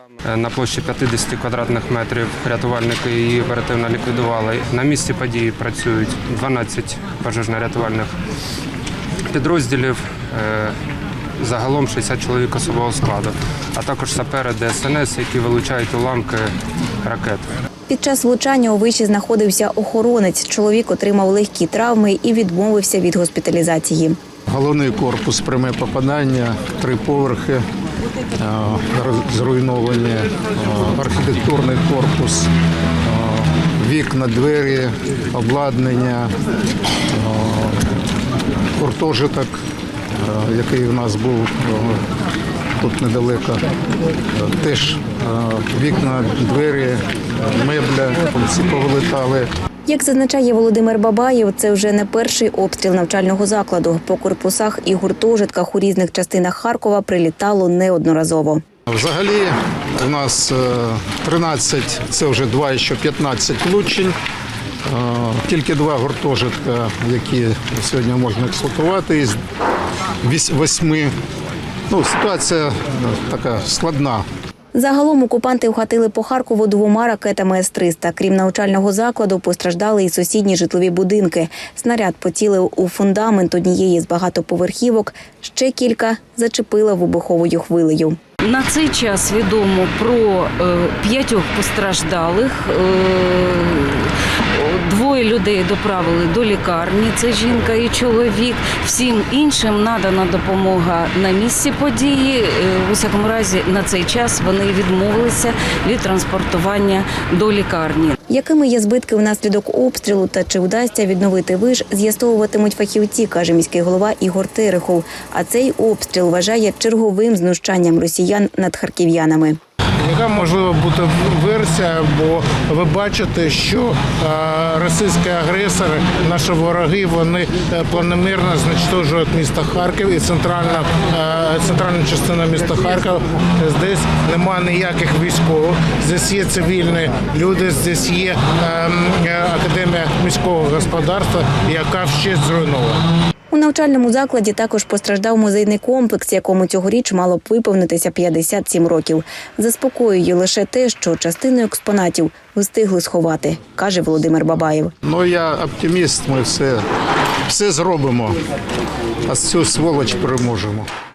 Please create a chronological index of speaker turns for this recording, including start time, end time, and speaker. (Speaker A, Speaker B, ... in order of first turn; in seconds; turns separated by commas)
Speaker A: 0.2-8.1, Speaker A: 9.3-10.8, Speaker A: 11.4-16.5, Speaker A: 17.0-17.5, Speaker B: 17.9-24.2, Speaker C: 24.5-27.6, Speaker C: 28.3-32.5, Speaker C: 33.0-36.3, Speaker C: 37.1-37.9, Speaker C: 38.8-39.5, Speaker C: 40.2-42.0, Speaker C: 42.8-43.7, Speaker C: 44.3-49.5, Speaker B: 49.9-58.6, Speaker C: 58.9-64.2, Speaker C: 64.8-69.4, Speaker C: 70.2-71.1, Speaker C: 71.9-74.2, Speaker B: 74.7-88.2, Speaker D: 88.4-108.2, Speaker B: 108.3-119.6, Speaker E: 120.0-143.0, Speaker B: 143.5-154.9, Speaker C: 155.0-156.8, Speaker C: 157.5-158.4, Speaker C: 159.2-160.9